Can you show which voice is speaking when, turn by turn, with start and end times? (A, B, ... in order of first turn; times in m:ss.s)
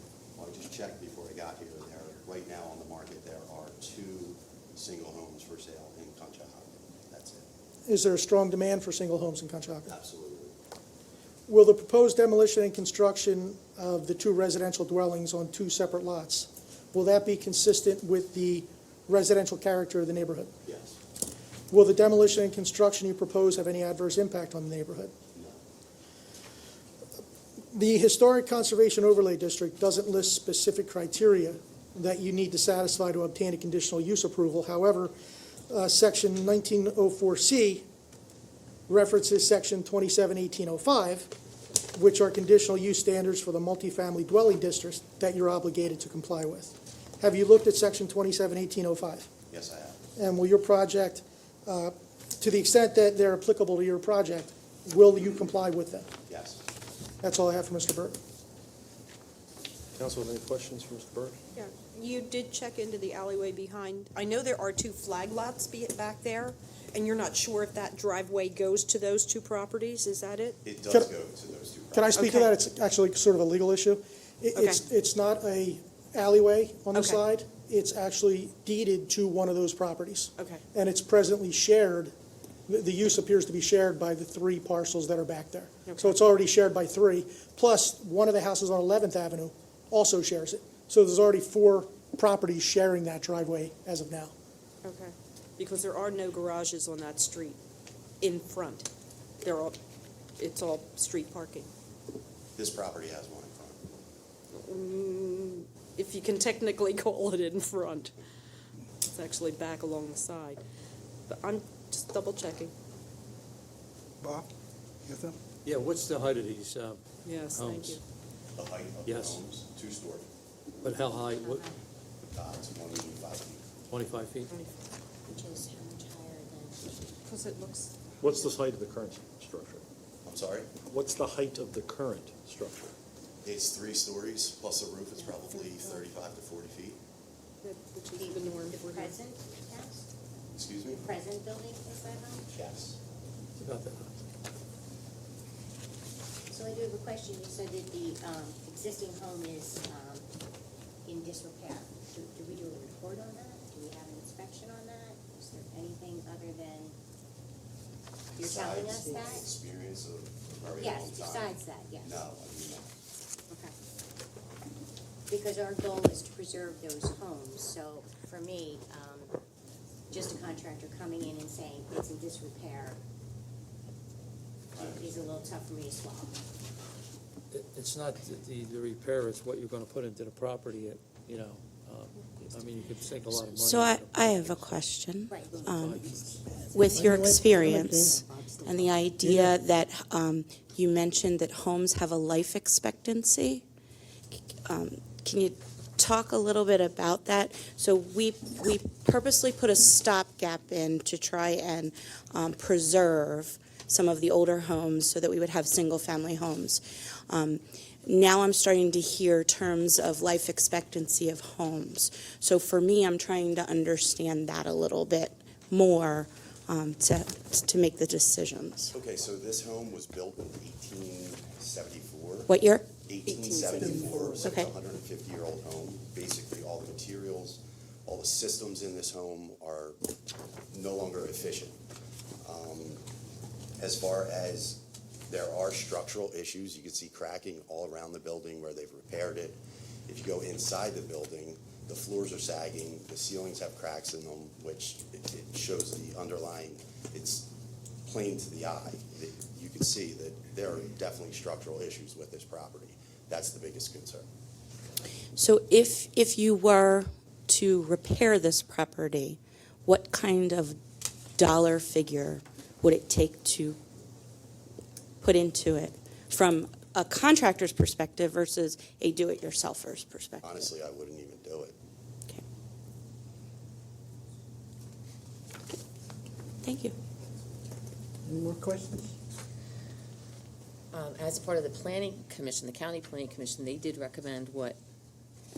0:00.4-0:07.4 A
0:07.9-0:09.9 B
0:09.9-0:10.6 A
0:11.5-0:20.5 B
0:20.6-0:21.0 A
0:21.7-0:25.1 B
0:27.7-0:35.1 B
0:35.7-0:37.9 B
0:38.9-0:41.3 B
0:41.9-0:49.3 B
0:49.5-0:50.0 A
0:50.2-0:56.1 B
0:56.3-0:56.6 A
0:57.2-0:58.2 B
1:00.0-1:01.4 C
1:01.6-1:10.6 D
1:10.6-1:12.2 A
1:11.9-1:22.1 B
1:12.2-1:12.5 D
1:14.6-1:14.8 D
1:16.9-1:17.2 D
1:20.4-1:20.6 D
1:22.7-1:34.3 B
1:25.9-1:26.2 D
1:34.8-1:37.6 D
1:38.2-1:38.9 D
1:39.4-1:39.8 D
1:40.4-1:41.7 D
1:42.6-1:43.8 A
1:44.5-1:48.2 D
1:49.1-1:50.6 D
1:51.3-1:52.7 D
1:54.2-1:54.5 E
1:55.0-1:55.4 E
1:55.6-1:57.0 F
1:57.2-1:58.0 D
1:57.5-1:58.0 F
1:58.6-2:00.3 A
1:59.1-1:59.4 F
2:00.8-2:01.7 F
2:01.2-2:01.8 G
2:02.3-2:03.6 A
2:03.9-2:04.5 F
2:04.5-2:04.8 D
2:05.2-2:07.3 G
2:07.3-2:07.9 D
2:08.2-2:09.8 C
2:10.2-2:10.7 A
2:10.9-2:13.0 C
2:13.4-2:17.0 A
2:17.6-2:19.2 D
2:18.1-2:20.1 G
2:20.6-2:21.0 A
2:20.8-2:22.5 G
2:22.5-2:23.0 A
2:23.6-2:24.2 F
2:26.5-2:30.3 G
2:31.0-2:37.0 G
2:38.4-2:39.5 G
2:38.4-2:42.9 A
2:40.7-2:42.2 G
2:43.5-2:43.8 G
2:45.3-2:49.3 G
2:50.1-2:53.0 G
2:54.7-2:56.4 G
2:57.5-3:04.8 F
3:03.5-3:06.0 H
3:05.3-3:05.6 G
3:05.6-3:06.5 F
3:06.7-3:13.6 H
3:07.0-3:08.2 E
3:09.2-3:09.5 E
3:14.6-3:39.0 H
3:38.9-3:42.5 A
3:42.5-3:42.9 H
3:43.0-3:50.0 A
3:43.4-3:44.2 D
3:44.1-3:44.5 E
3:44.4-3:44.7 H
3:50.7-3:51.8 A
3:52.4-3:53.0 A
3:53.8-4:07.5 A
4:08.0-4:14.3 A
4:15.4-4:20.8 H
4:21.4-4:23.8 H
4:25.2-4:30.6 H
4:30.4-4:31.8 A
4:36.6-4:37.0 H
4:38.3-4:39.1 E
4:40.9-4:44.8 I